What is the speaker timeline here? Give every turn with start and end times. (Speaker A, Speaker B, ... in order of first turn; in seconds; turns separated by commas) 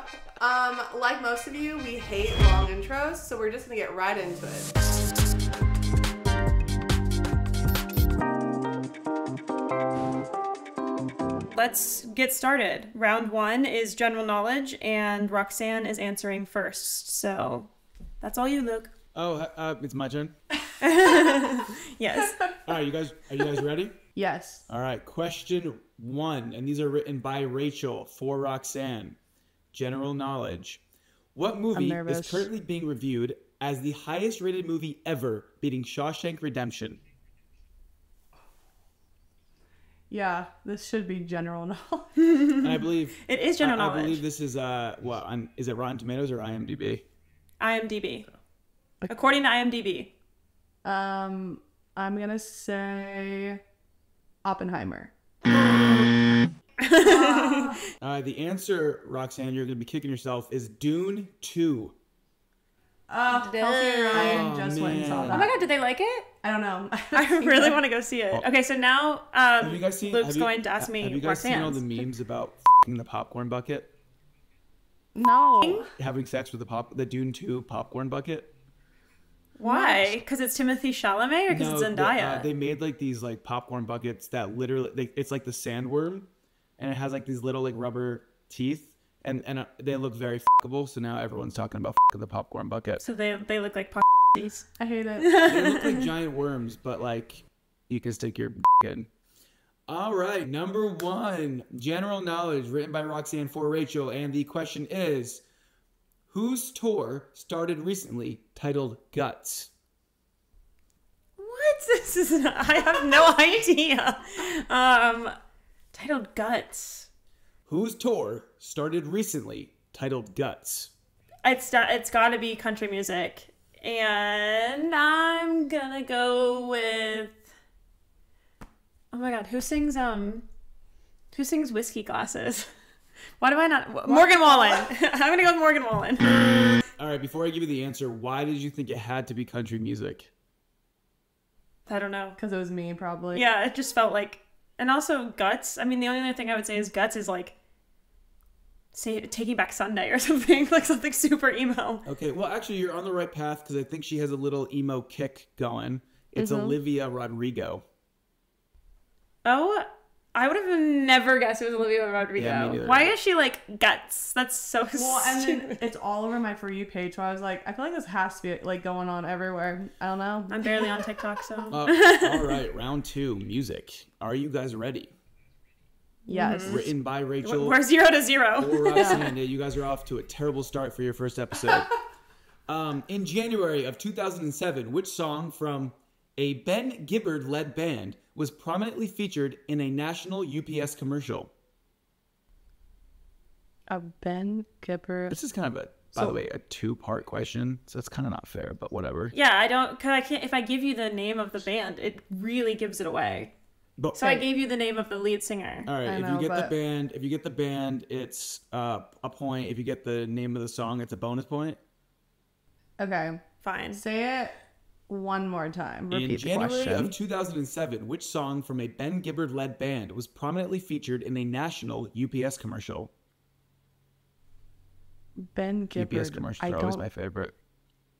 Speaker A: 0.4-4.7, Speaker B: 11.5-17.7, Speaker B: 18.2-18.9, Speaker C: 19.1-20.3, Speaker B: 20.8-22.4, Speaker A: 22.2-22.6, Speaker C: 22.6-24.0, Speaker A: 24.1-24.7, Speaker C: 24.7-29.2, Speaker C: 29.7-30.8, Speaker C: 31.3-37.0, Speaker A: 31.7-32.5, Speaker A: 40.1-42.1, Speaker B: 42.2-44.2, Speaker C: 42.6-47.0, Speaker B: 47.6-48.3, Speaker B: 49.1-50.1, Speaker A: 50.8-53.6, Speaker A: 54.4-56.2, Speaker B: 56.8-57.8, Speaker A: 57.0-57.8, Speaker C: 58.0-61.9, Speaker A: 63.1-65.5, Speaker B: 63.3-64.4, Speaker C: 64.1-65.5, Speaker B: 65.3-66.3, Speaker A: 66.4-67.8, Speaker B: 67.1-72.0, Speaker C: 69.6-73.9, Speaker A: 75.1-75.9, Speaker C: 75.9-78.5, Speaker B: 79.6-82.5, Speaker A: 79.6-80.2, Speaker C: 81.5-93.0, Speaker B: 93.0-94.7, Speaker A: 94.8-95.3, Speaker B: 95.2-96.1, Speaker C: 95.4-99.1, Speaker C: 99.9-105.4, Speaker C: 106.3-109.7, Speaker B: 111.4-115.3, Speaker B: 115.9-117.1, Speaker C: 117.7-120.9, Speaker B: 121.4-127.4, Speaker B: 129.1-130.4, Speaker B: 131.3-132.7, Speaker B: 133.4-136.6, Speaker A: 134.1-134.9, Speaker C: 137.0-140.3, Speaker B: 141.9-142.4, Speaker A: 142.4-143.4, Speaker B: 143.3-147.5, Speaker B: 148.9-152.0, Speaker C: 152.0-157.8, Speaker A: 156.3-156.8, Speaker B: 159.4-165.8, Speaker C: 162.4-163.1, Speaker A: 164.9-171.2, Speaker B: 170.5-172.6, Speaker C: 171.7-175.1, Speaker B: 176.2-176.9, Speaker A: 176.3-176.9, Speaker C: 176.6-177.8, Speaker B: 177.4-179.3, Speaker C: 178.6-181.9, Speaker A: 178.9-179.2, Speaker C: 182.7-191.5, Speaker A: 193.9-195.4, Speaker C: 195.3-199.3, Speaker A: 196.1-196.4, Speaker B: 199.3-203.5, Speaker C: 204.0-204.3, Speaker B: 204.1-205.9, Speaker C: 205.9-211.8, Speaker A: 206.0-206.7, Speaker A: 213.0-214.5, Speaker B: 213.6-214.0, Speaker A: 215.1-217.2, Speaker C: 216.1-223.1, Speaker A: 225.4-227.0, Speaker C: 225.9-227.5